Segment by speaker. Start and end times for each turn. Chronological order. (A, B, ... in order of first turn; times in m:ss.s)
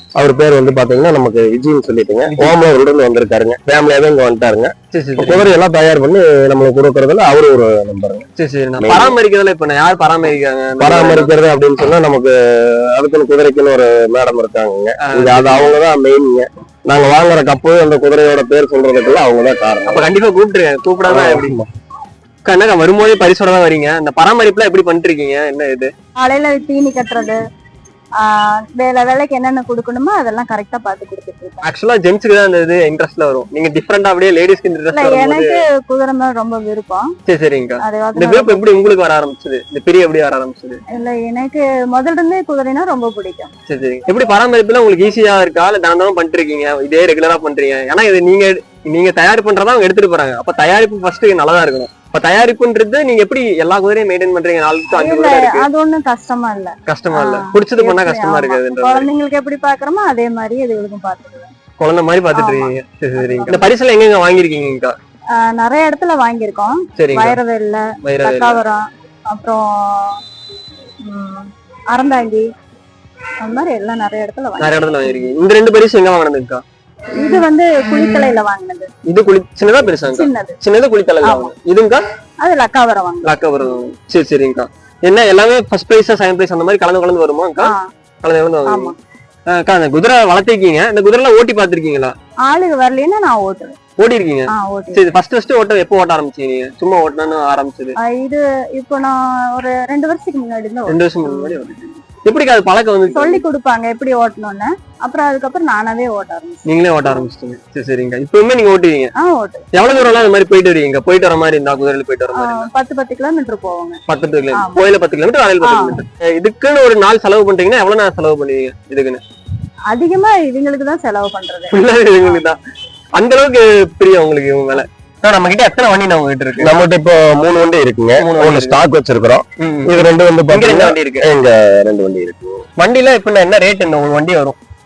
0:00.2-0:08.3 A
0:02.2-0:02.6 B
0:04.9-0:05.5 B
0:08.4-0:11.3 B
0:08.8-0:09.2 A
0:10.8-0:20.1 A
0:15.0-0:15.8 B
0:19.9-0:21.6 B
0:21.1-0:21.7 A
0:22.4-0:25.9 B
0:26.2-0:27.4 C
0:28.2-0:31.6 C
0:31.6-0:35.6 B
0:34.9-0:37.1 C
0:37.3-0:40.8 B
0:37.8-0:38.6 C
0:40.9-0:43.5 C
0:43.7-0:55.7 B
0:54.9-1:01.5 C
0:56.9-0:59.1 B
1:01.8-1:04.9 B
1:02.3-1:03.7 C
1:05.3-1:10.2 C
1:07.0-1:07.4 B
1:08.0-1:08.6 B
1:11.0-1:12.5 C
1:13.4-1:15.3 C
1:14.6-1:16.6 B
1:17.1-1:18.9 C
1:19.0-1:22.0 B
1:20.1-1:20.6 C
1:21.2-1:21.5 C
1:22.4-1:23.3 C
1:23.2-1:28.9 B
1:27.6-1:27.9 C
1:28.6-1:29.0 C
1:29.5-1:32.1 B
1:32.4-1:33.8 C
1:34.0-1:38.0 B
1:34.5-1:35.0 C
1:38.0-1:41.6 C
1:40.9-1:43.4 B
1:43.1-1:47.2 C
1:46.6-1:49.1 B
1:49.2-1:50.0 C
1:49.7-1:52.7 B
1:52.3-1:54.0 C
1:54.1-1:59.2 B
1:54.5-1:54.8 C
1:55.6-1:56.0 C
1:59.9-2:01.8 C
2:01.7-2:02.6 B
2:03.2-2:06.7 B
2:06.6-2:12.6 A
2:08.2-2:08.8 B
2:09.6-2:11.2 B
2:12.8-2:14.6 B